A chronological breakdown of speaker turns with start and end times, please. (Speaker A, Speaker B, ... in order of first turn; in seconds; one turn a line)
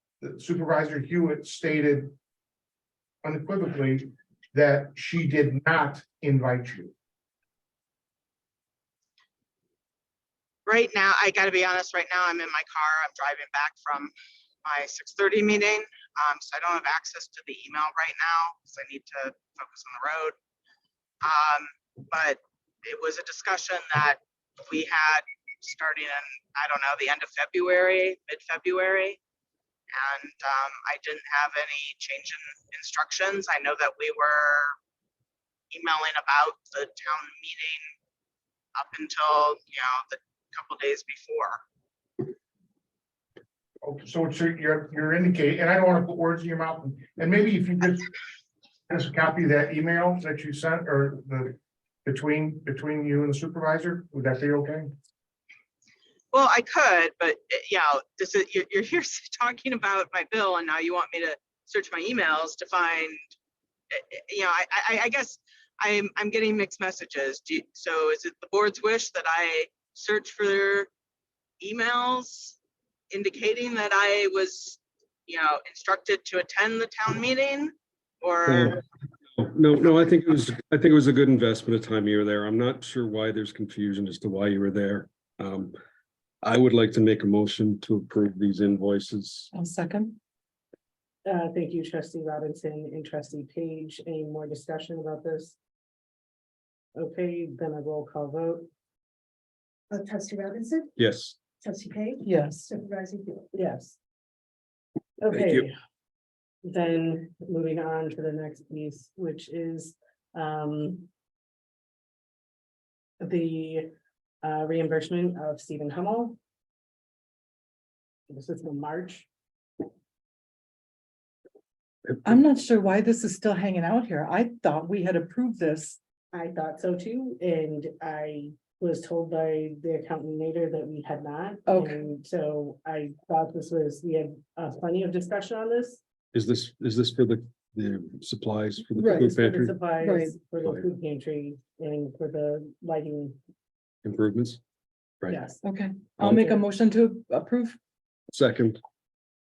Speaker A: 0.2-2.2
Speaker A: 3.2-6.9
Speaker B: 10.7-14.1
Speaker B: 14.6-20.4
Speaker B: 21.2-29.2
Speaker B: 29.9-34.8
Speaker B: 35.7-37.8
Speaker B: 38.8-41.6
Speaker A: 43.8-48.1
Speaker A: 48.9-55.0
Speaker B: 56.3-63.3
Speaker B: 63.9-70.9
Speaker B: 71.6-72.5
Speaker B: 73.1-78.8
Speaker C: 78.5-78.8
Speaker C: 79.4-85.8
Speaker C: 86.4-89.5
Speaker D: 89.5-90.2
Speaker E: 91.2-95.6
Speaker E: 97.0-98.7
Speaker F: 99.9-100.9
Speaker C: 101.0-101.4
Speaker F: 101.6-103.5
Speaker D: 102.2-102.7
Speaker E: 103.5-104.0
Speaker E: 105.2-105.7
Speaker C: 105.3-105.7
Speaker E: 106.6-111.1
Speaker E: 113.2-113.9
Speaker E: 114.4-116.4
Speaker E: 118.3-119.3
Speaker C: 122.1-122.3
Speaker D: 122.2-126.0
Speaker E: 126.3-136.0
Speaker D: 131.7-132.0
Speaker C: 136.3-139.9
Speaker D: 139.0-139.3
Speaker E: 139.0-143.4
Speaker D: 140.0-140.4
Speaker C: 144.0-144.6
Speaker E: 145.3-145.6
Speaker D: 145.6-147.8
Speaker C: 146.2-146.6
Speaker C: 148.3-148.8